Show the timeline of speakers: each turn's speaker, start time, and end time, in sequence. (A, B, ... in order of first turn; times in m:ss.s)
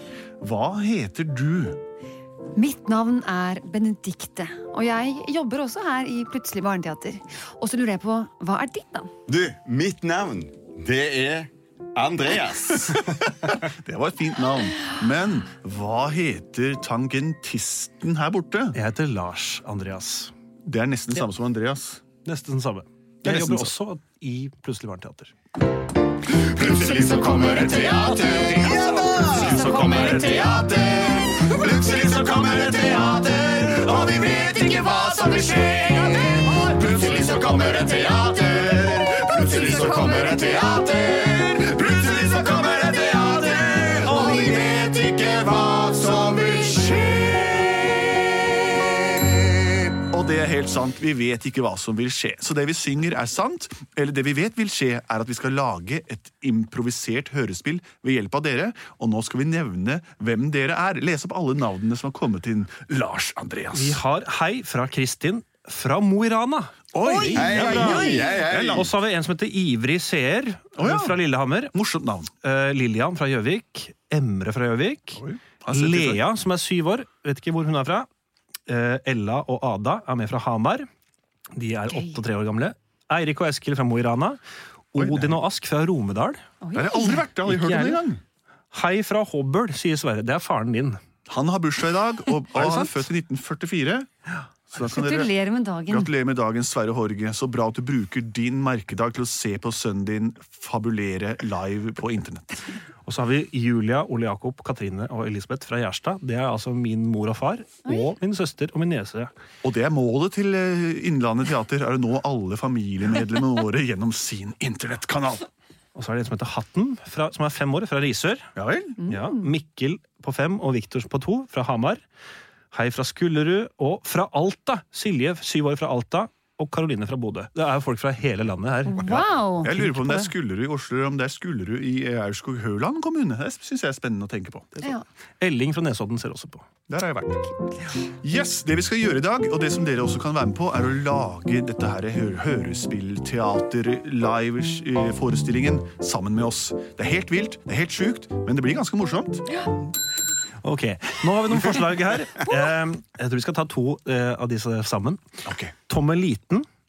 0:00.4-0:01.8 A
0:02.6-0:09.1 B
0:09.3-0:13.2 C
0:13.4-0:18.8 A
0:18.7-0:20.3 D
0:20.6-0:22.0 A
0:22.2-0:25.3 D
0:23.2-0:23.7 A
0:26.6-0:49.9 C
0:26.6-0:30.7 A
0:27.5-0:30.9 B
0:33.9-0:37.5 A
0:39.0-0:40.5 B
0:41.5-0:42.2 A
0:43.5-0:44.6 A
0:46.7-0:47.8 A
0:50.0-1:04.0 A
1:03.7-1:11.8 D
1:06.9-1:08.9 A
1:07.0-1:08.3 B
1:07.4-1:08.9 C
1:10.8-1:11.2 A
1:11.7-1:12.3 A
1:12.4-1:18.1 D
1:15.2-1:16.2 A
1:18.7-1:20.9 D
1:21.6-1:24.4 D
1:21.9-1:22.1 B
1:24.9-1:26.4 D
1:25.0-1:25.4 A
1:26.6-1:27.2 B
1:26.7-1:28.2 A
1:27.0-1:28.0 D
1:28.7-1:31.0 D
1:31.3-1:34.1 A
1:32.5-1:33.1 D
1:34.7-1:35.3 A
1:34.8-1:36.1 B
1:35.9-1:42.6 A
1:43.1-1:49.3 D
1:49.6-1:55.5 A
1:56.0-1:58.5 D
1:58.6-1:59.0 A
1:59.0-1:59.5 B
1:59.0-2:02.0 D
2:02.7-2:10.3 D
2:08.8-2:09.7 B
2:09.0-2:14.8 A
2:15.4-2:16.7 D
2:16.9-2:29.5 A
2:30.6-2:35.2 D
2:35.4-2:35.7 A
2:35.9-2:36.7 D